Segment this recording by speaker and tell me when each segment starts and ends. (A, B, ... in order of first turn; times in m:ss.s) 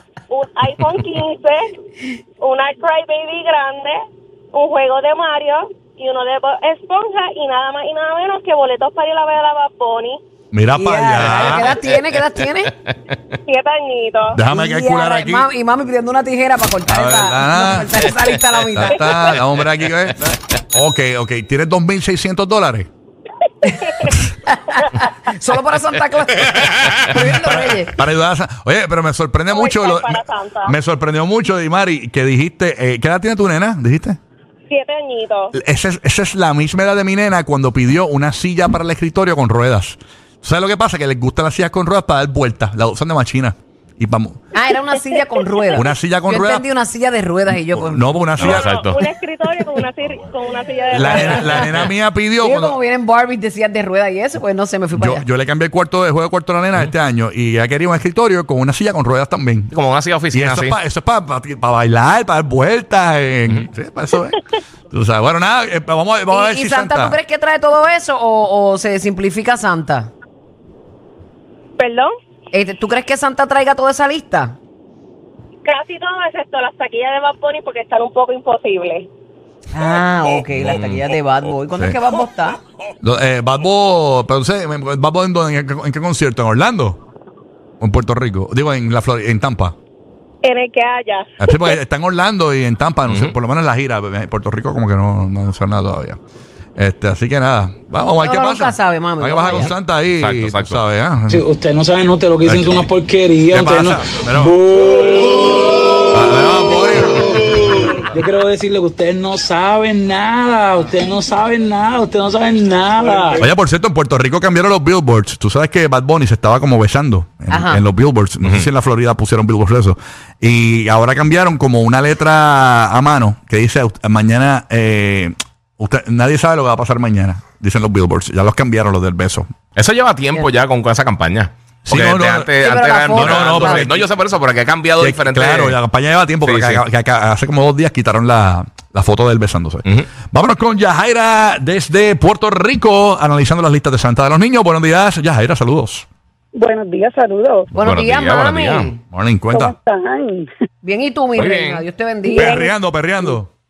0:00.3-0:01.7 A
0:02.4-0:04.0 A
0:04.5-0:10.2 A
0:10.5-0:11.8 B
0:10.8-0:12.7 C
0:13.5-0:14.4 A
0:14.3-0:15.5 B
0:14.5-0:19.1 C
0:16.9-0:17.9 B
0:18.8-0:22.9 B
0:18.9-0:19.2 A
0:23.6-0:27.9 C
0:27.1-0:34.2 B
0:29.5-0:30.7 A
0:34.7-0:35.5 A
0:35.5-0:44.4 B
0:44.5-0:48.3 C
0:45.8-0:46.7 B
0:47.7-0:48.7 B
0:48.4-0:49.0 D
0:48.4-0:51.7 A
0:50.9-0:52.8 B
0:51.0-0:51.7 C
0:52.4-0:55.3 C
0:54.9-0:59.7 B
0:59.7-1:00.8 D
1:00.3-1:04.4 B
1:04.9-1:07.2 B
1:06.3-1:10.1 C
1:11.8-1:12.1 A
1:12.5-1:14.6 C
1:15.6-1:19.1 A
1:19.7-1:22.6 C
1:20.6-1:21.0 D
1:23.0-1:27.0 B
1:27.8-1:29.8 B
1:30.4-1:31.3 A
1:31.4-1:36.2 B
1:33.1-1:33.4 D
1:36.8-1:41.4 B
1:38.2-1:39.7 C
1:40.2-1:40.8 D
1:41.3-1:45.4 E
1:42.4-1:42.9 B
1:43.5-1:44.6 B
1:46.1-1:47.4 B
1:48.0-1:53.4 E
1:53.0-1:53.4 F
1:53.4-2:09.5 B
1:57.5-1:57.8 C
1:58.4-1:58.7 D
2:09.8-2:15.8 D
2:11.9-2:14.0 B
2:12.6-2:14.0 C
2:15.0-2:26.1 B
2:16.4-2:16.8 D
2:26.6-2:27.7 F
2:27.7-2:29.0 C
2:27.8-2:28.9 D
2:29.1-2:29.8 B
2:29.5-2:30.5 F
2:30.8-2:32.6 C
2:31.4-2:31.8 D
2:32.2-2:33.4 F
2:32.4-2:33.5 B